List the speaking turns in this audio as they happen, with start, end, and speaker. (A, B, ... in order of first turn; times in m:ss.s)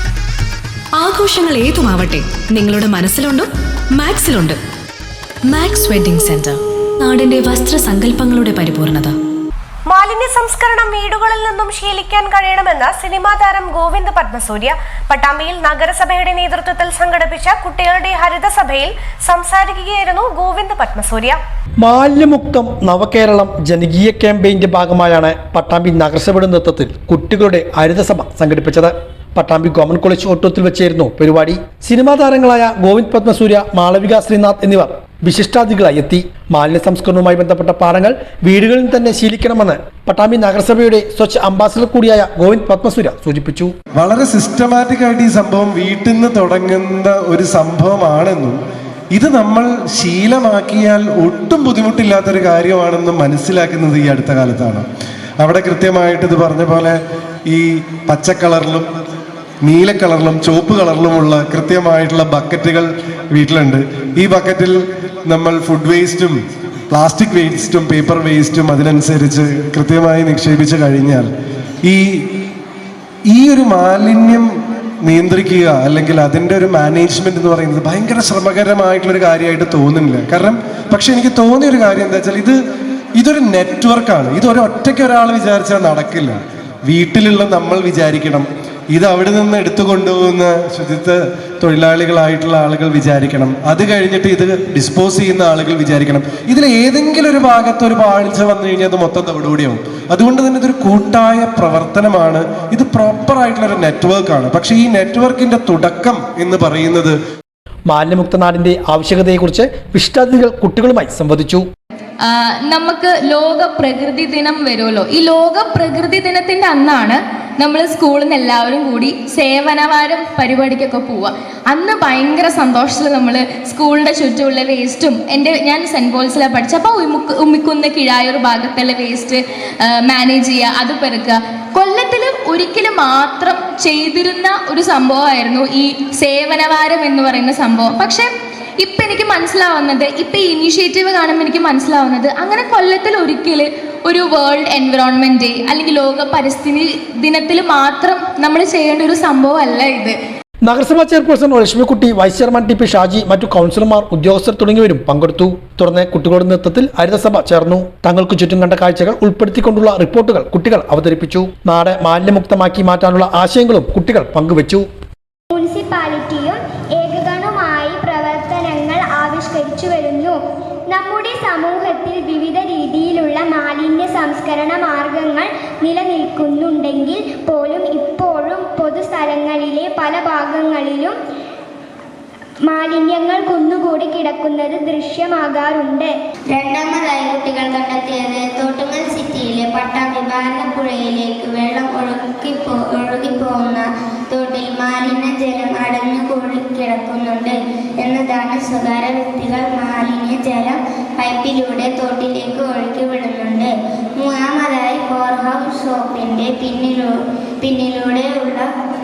0:01.0-0:04.6 A
0:05.5-0:09.1 A
0:09.9-0:21.4 B
0:21.8-0:43.7 C
0:43.9-0:48.6 D
0:49.1-0:54.9 D
0:55.4-0:57.0 D
0:57.5-0:58.9 D
0:59.6-1:04.7 D
1:05.2-1:06.3 D
1:06.9-1:11.3 D
1:13.3-1:14.4 D
1:15.0-1:22.6 D
1:23.1-1:47.2 D
1:47.9-1:51.7 C
1:52.2-2:18.3 E
2:18.8-2:30.2 E
2:30.7-2:44.8 C
2:45.5-2:50.4 F
2:50.9-3:01.2 F
3:02.7-3:06.1 F
3:06.5-3:28.7 G